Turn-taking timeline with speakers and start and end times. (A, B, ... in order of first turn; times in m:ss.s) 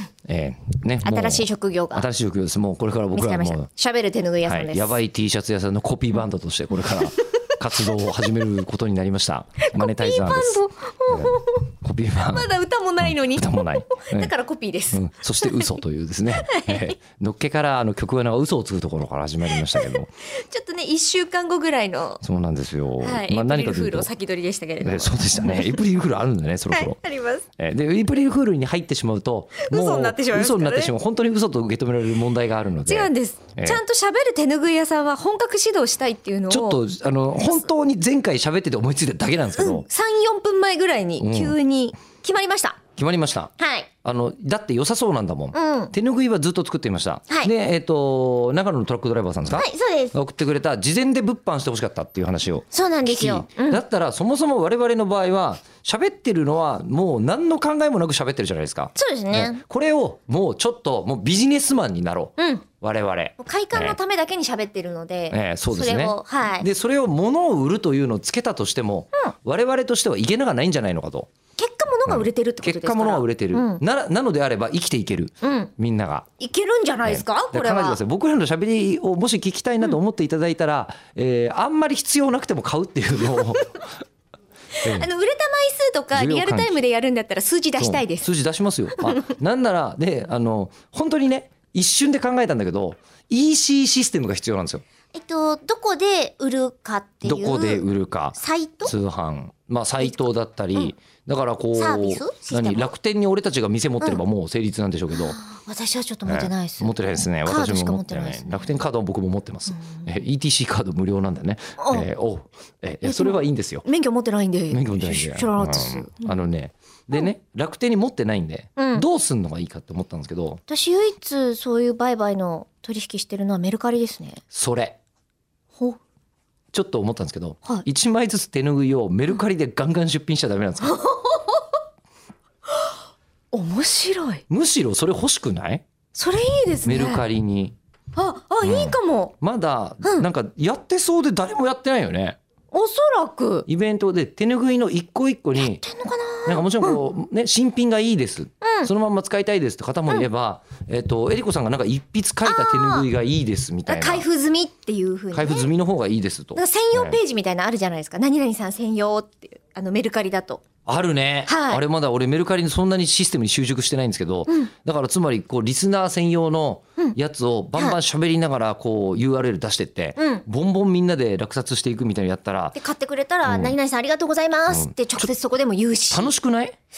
0:00.3-0:03.7 A
0:01.0-0:02.1 B
0:03.1-0:05.0 B
0:04.4-0:12.5 A
0:09.7-0:11.7 B
0:12.3-0:15.8 B
0:13.0-0:14.3 A
0:14.9-0:20.1 A
0:16.4-0:16.9 B
0:19.5-0:22.2 B
0:22.2-0:24.1 A
0:23.0-0:25.8 B
0:24.8-0:27.0 A
0:26.7-0:27.4 B
0:27.6-0:33.8 A
0:29.6-0:30.9 B
0:32.9-0:36.8 B
0:36.5-0:39.9 A
0:37.4-0:37.7 B
0:39.5-0:42.8 B
0:41.2-0:41.6 A
0:43.0-0:43.5 A
0:43.6-0:43.9 B
0:44.0-1:04.0 A
0:45.5-0:45.9 B
0:49.5-0:50.2 B
0:52.7-0:53.8 B
0:59.0-0:59.6 B
1:02.4-1:02.6 B
1:03.4-1:06.7 B
1:05.3-1:11.3 A
1:11.6-1:13.8 B
1:12.1-1:16.3 A
1:15.4-1:15.7 B
1:16.4-1:18.0 B
1:17.0-1:23.8 A
1:24.8-1:28.3 B
1:24.8-1:25.1 A
1:26.1-1:26.8 A
1:27.8-1:34.8 A
1:35.1-1:38.9 B
1:37.2-1:45.4 A
1:40.0-1:40.9 B
1:41.8-1:42.9 B
1:45.1-1:46.9 B
1:46.3-1:53.8 A
1:47.4-1:48.7 B
1:49.7-1:50.1 B
1:51.8-1:52.1 B
1:53.0-1:56.4 B
1:54.7-2:00.6 A
1:58.8-1:59.1 B
2:00.7-2:04.4 B
2:04.5-2:05.0 A
2:06.7-2:11.0 A
2:10.8-2:11.8 B
2:13.5-2:14.4 B
2:14.5-2:15.8 A
2:16.1-2:17.2 B
2:16.8-2:17.8 A
2:18.2-2:19.3 B
2:18.6-2:22.4 A
2:22.7-2:23.7 B
2:23.7-2:25.8 A
2:25.6-2:27.0 B
2:26.5-2:34.3 A
2:28.6-2:28.9 B
2:32.4-2:33.1 B
2:33.9-2:35.7 B
2:35.3-2:37.2 A
2:36.6-2:40.6 B
2:40.9-2:52.8 A
2:41.5-2:41.8 B
2:50.2-2:50.4 B
2:52.8-2:56.3 B
2:53.5-2:53.8 A
2:54.7-2:55.3 A
2:56.1-2:56.8 A